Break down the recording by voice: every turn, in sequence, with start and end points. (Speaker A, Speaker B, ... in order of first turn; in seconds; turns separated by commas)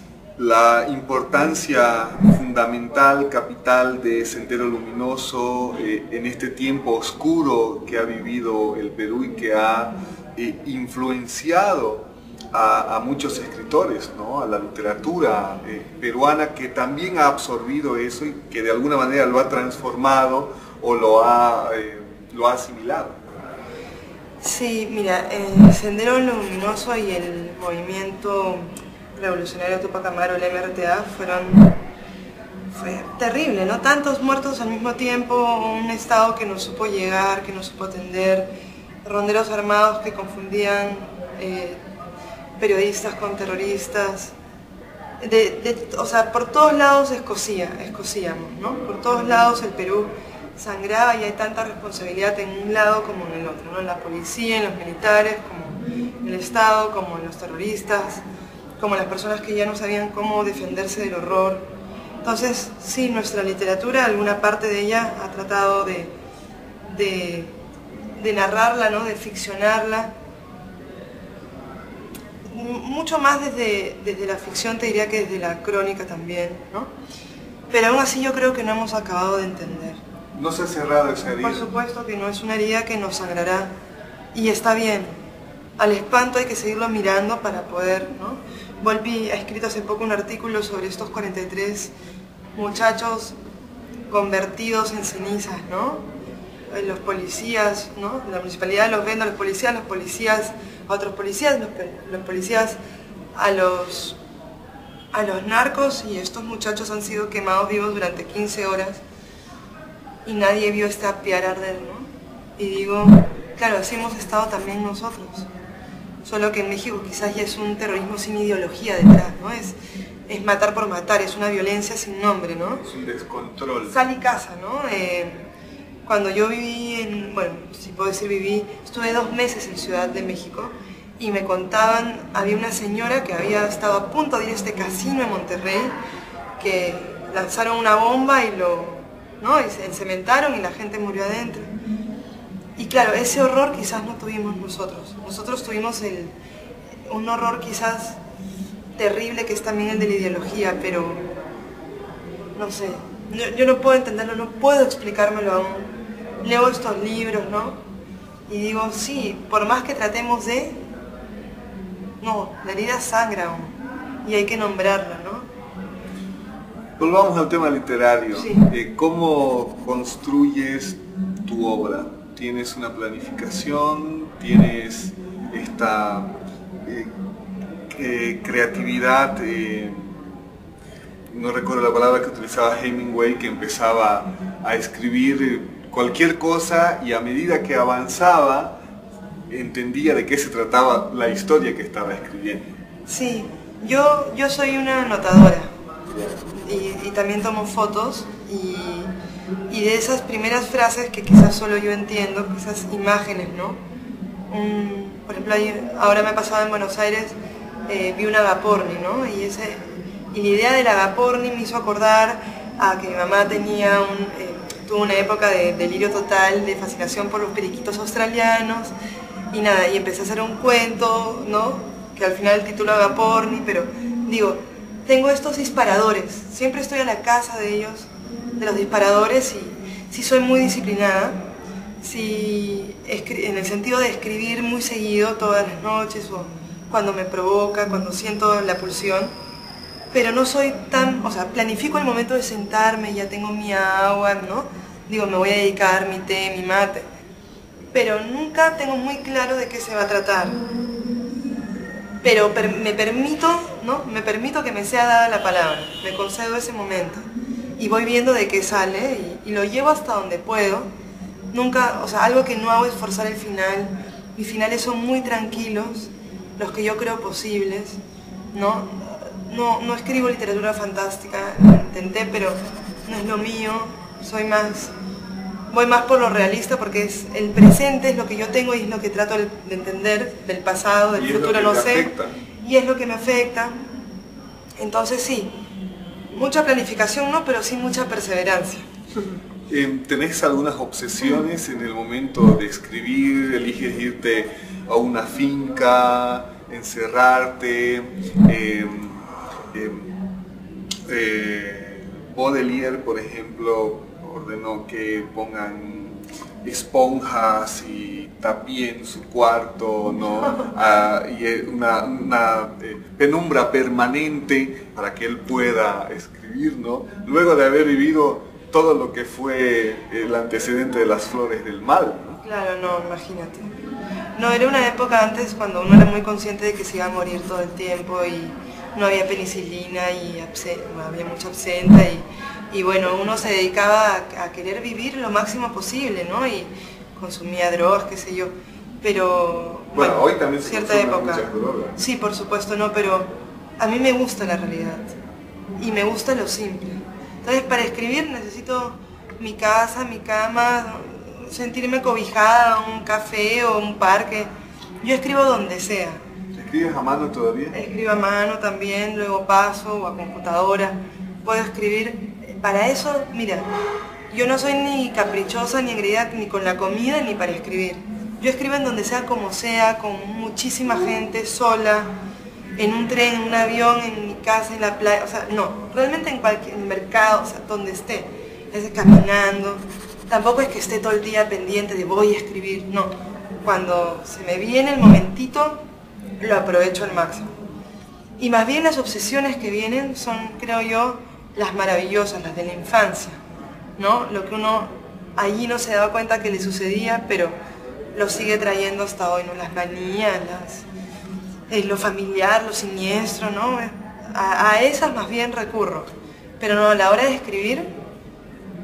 Speaker A: 0.4-23.2, Speaker B: 24.4-31.8, Speaker B: 32.7-38.5, Speaker B: 39.0-41.8, Speaker B: 42.6-44.3, Speaker B: 45.2-58.2, Speaker B: 58.8-61.6, Speaker B: 62.2-66.1, Speaker B: 66.8-67.5, Speaker B: 68.2-70.1, Speaker B: 72.5-76.9, Speaker B: 77.7-80.0, Speaker A: 80.3-81.6, Speaker B: 81.4-83.7, Speaker B: 84.3-85.1, Speaker B: 85.8-91.9, Speaker B: 92.5-93.3, Speaker B: 94.1-96.0, Speaker B: 96.7-102.8, Speaker B: 103.3-104.2, Speaker B: 105.1-109.0, Speaker B: 110.2-115.5, Speaker B: 116.2-119.7, Speaker B: 120.3-122.8, Speaker A: 122.8-124.0, Speaker B: 123.9-125.5, Speaker B: 126.0-135.9, Speaker B: 136.6-141.7, Speaker B: 142.8-146.3, Speaker B: 147.1-148.2, Speaker B: 148.9-151.3, Speaker B: 152.6-157.8, Speaker B: 158.5-160.8, Speaker B: 162.2-165.5, Speaker A: 167.0-177.1, Speaker B: 168.3-168.7, Speaker A: 177.9-180.3, Speaker A: 181.3-188.8, Speaker A: 189.5-192.7, Speaker B: 193.1-195.7, Speaker A: 196.1-196.5, Speaker B: 196.6-199.1, Speaker B: 199.7-203.8, Speaker B: 204.5-207.3, Speaker B: 207.9-218.9, Speaker B: 219.5-231.4, Speaker B: 232.0-239.3, Speaker B: 240.1-247.1, Speaker B: 247.9-250.6, Speaker B: 252.2-257.2, Speaker B: 257.8-260.9, Speaker B: 261.5-268.0, Speaker B: 268.5-274.9, Speaker B: 275.7-283.8, Speaker A: 281.1-282.3, Speaker B: 284.8-285.5, Speaker B: 286.3-288.8, Speaker A: 289.7-300.1, Speaker A: 301.1-322.4, Speaker B: 322.4-323.7, Speaker B: 324.4-345.1, Speaker A: 339.9-342.0, Speaker B: 345.8-354.5, Speaker B: 355.0-356.2, Speaker A: 356.5-357.8, Speaker B: 357.7-363.7, Speaker B: 364.3-372.1, Speaker B: 372.8-385.8, Speaker B: 386.4-387.5, Speaker B: 388.4-393.4, Speaker B: 394.0-397.5, Speaker B: 398.1-400.9, Speaker B: 401.7-407.9